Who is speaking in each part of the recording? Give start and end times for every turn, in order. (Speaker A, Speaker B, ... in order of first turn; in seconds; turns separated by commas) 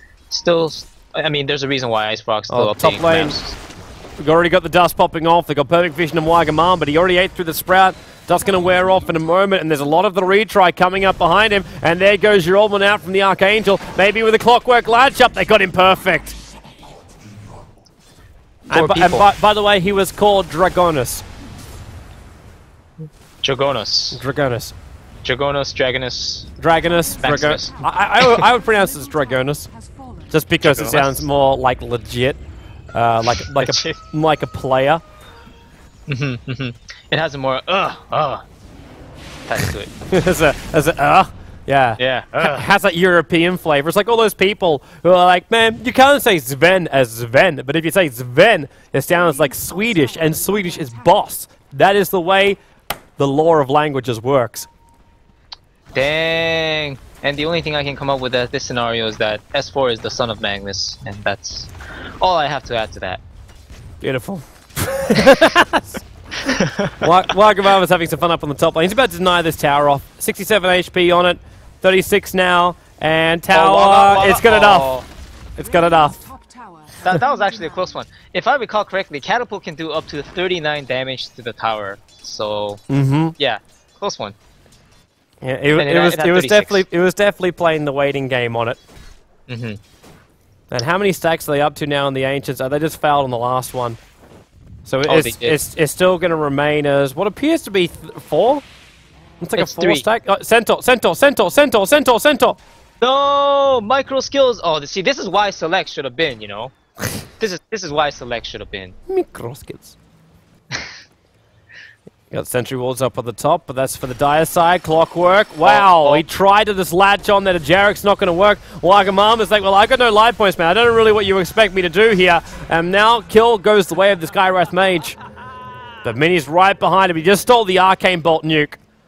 Speaker A: 0.3-3.6, Speaker B: 2.5-3.4, Speaker B: 4.2-16.4, Speaker C: 8.3-10.3, Speaker B: 18.7-21.2, Speaker A: 18.7-19.3, Speaker A: 23.4-24.2, Speaker B: 24.1-24.8, Speaker A: 25.2-26.5, Speaker B: 26.6-29.7, Speaker C: 26.7-30.5, Speaker A: 27.2-28.4, Speaker B: 30.3-32.4, Speaker A: 30.6-31.3, Speaker B: 32.9-35.0, Speaker A: 33.5-34.0, Speaker A: 36.1-38.5, Speaker A: 39.5-39.9, Speaker B: 40.1-52.6, Speaker A: 42.0-42.7, Speaker C: 49.1-51.5, Speaker B: 53.2-54.7, Speaker A: 55.9-63.2, Speaker B: 64.0-66.0, Speaker A: 66.4-67.1, Speaker B: 67.0-74.9, Speaker A: 73.5-75.1, Speaker C: 75.6-78.0, Speaker B: 75.6-76.2, Speaker A: 77.0-82.8, Speaker B: 82.9-83.3, Speaker A: 83.4-84.4, Speaker B: 85.4-88.8, Speaker A: 85.7-86.8, Speaker A: 89.5-89.8, Speaker B: 90.7-94.0, Speaker B: 94.8-98.6, Speaker A: 95.1-95.6, Speaker B: 99.4-102.6, Speaker A: 99.6-100.1, Speaker A: 103.0-106.7, Speaker A: 107.4-109.0, Speaker B: 109.1-110.0, Speaker B: 112.3-125.2, Speaker A: 115.6-116.2, Speaker B: 126.0-128.8